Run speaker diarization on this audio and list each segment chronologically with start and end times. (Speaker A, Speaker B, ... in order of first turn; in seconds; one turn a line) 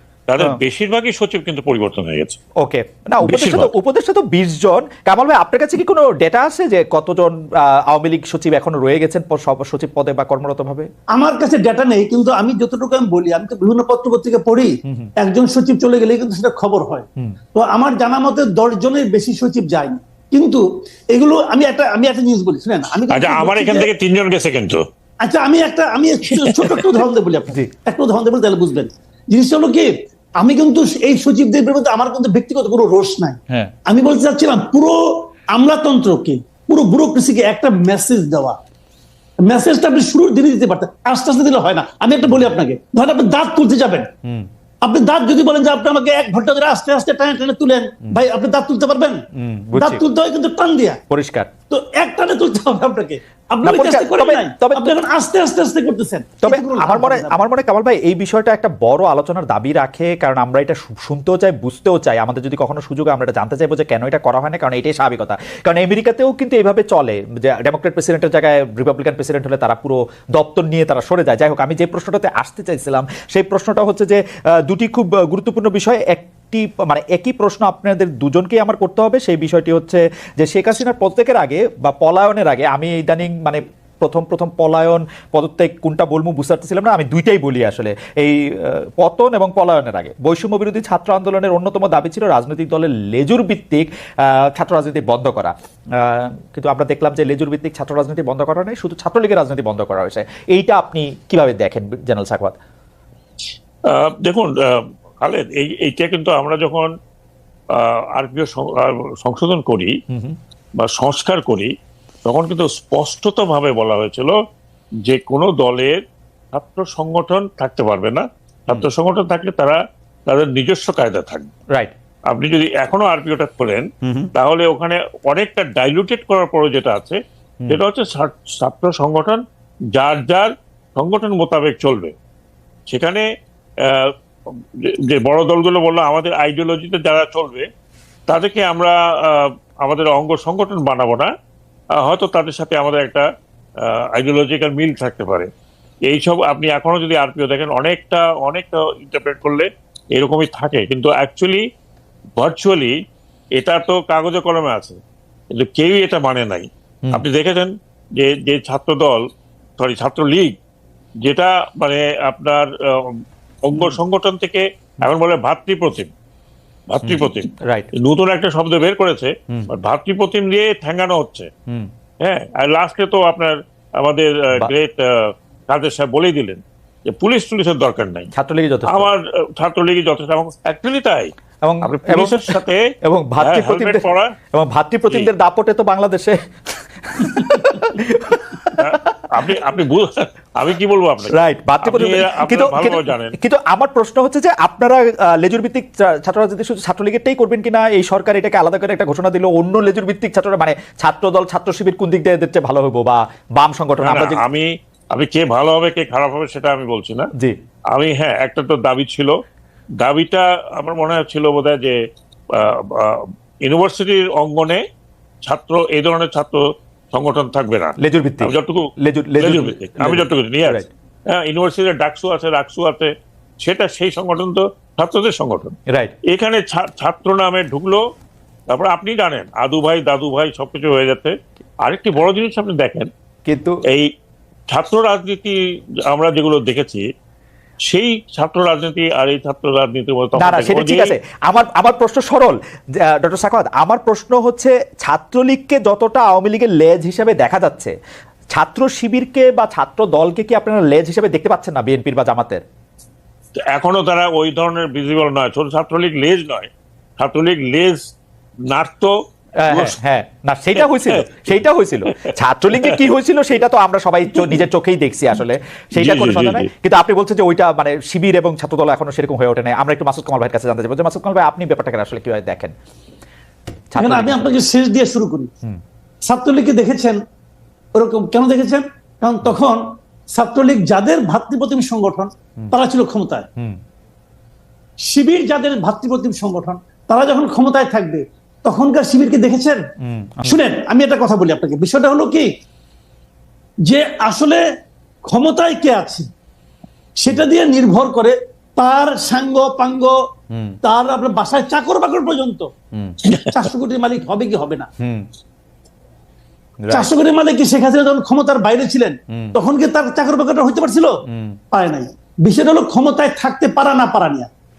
Speaker A: 0.3-2.4
Speaker B: 2.6-10.9
Speaker A: 3.2-3.7
Speaker C: 11.2-23.9
Speaker A: 23.1-24.8
Speaker C: 25.2-35.0
Speaker A: 26.3-27.0
Speaker C: 35.5-38.6
Speaker C: 39.4-44.1
Speaker C: 44.8-49.2
Speaker B: 49.4-50.0
Speaker C: 49.8-51.0
Speaker B: 51.1-51.5
Speaker C: 51.7-57.4
Speaker B: 53.6-54.9
Speaker B: 56.4-102.6
Speaker A: 103.9-106.9
Speaker A: 107.7-109.9
Speaker B: 110.1-110.3
Speaker A: 110.8-111.7
Speaker A: 112.2-114.3
Speaker A: 115.0-116.0
Speaker A: 116.5-121.5
Speaker A: 122.3-129.4
Speaker B: 124.0-124.3
Speaker A: 129.9-132.1
Speaker A: 132.9-133.2
Speaker A: 133.8-134.1
Speaker A: 135.0-137.7
Speaker A: 138.3-141.3
Speaker A: 142.0-143.2
Speaker A: 143.9-145.5
Speaker A: 146.1-151.6
Speaker A: 152.4-152.9
Speaker A: 153.6-155.0
Speaker A: 155.5-159.2
Speaker A: 159.8-160.5
Speaker A: 161.2-166.1
Speaker A: 166.9-171.5
Speaker B: 167.0-167.9
Speaker A: 172.2-178.3
Speaker B: 178.3-179.1
Speaker A: 178.9-181.3
Speaker B: 181.6-186.4
Speaker A: 181.8-182.8
Speaker A: 183.4-184.3
Speaker B: 187.0-189.5
Speaker A: 187.4-187.7
Speaker A: 188.8-193.4
Speaker B: 191.3-204.4
Speaker A: 204.0-207.3
Speaker A: 207.9-209.3
Speaker A: 210.0-212.0
Speaker A: 212.5-214.8
Speaker A: 215.4-216.6
Speaker A: 217.1-225.8
Speaker B: 218.0-220.9
Speaker B: 225.9-226.1
Speaker A: 226.3-228.0
Speaker A: 228.7-231.3
Speaker A: 231.8-233.1
Speaker B: 233.4-233.8
Speaker A: 234.7-237.0
Speaker A: 237.9-241.1
Speaker B: 240.4-247.9
Speaker B: 248.5-252.6
Speaker A: 253.7-258.0
Speaker A: 258.7-259.1
Speaker B: 259.6-272.7
Speaker A: 259.7-260.0
Speaker A: 260.7-261.6
Speaker A: 262.1-263.0
Speaker A: 265.9-266.7
Speaker B: 273.9-274.6
Speaker C: 273.9-275.5
Speaker C: 276.3-277.2
Speaker C: 277.9-279.8
Speaker C: 280.3-283.5
Speaker C: 285.1-289.8
Speaker B: 290.0-290.6
Speaker C: 290.4-292.5
Speaker C: 293.9-294.6
Speaker C: 295.3-296.3
Speaker C: 297.2-300.1
Speaker B: 300.5-300.8
Speaker C: 300.8-302.7
Speaker B: 302.9-303.2
Speaker A: 303.2-303.6
Speaker C: 303.5-304.9
Speaker B: 305.0-305.3
Speaker B: 306.8-307.1
Speaker C: 306.9-311.2
Speaker B: 311.3-311.6
Speaker C: 311.7-314.5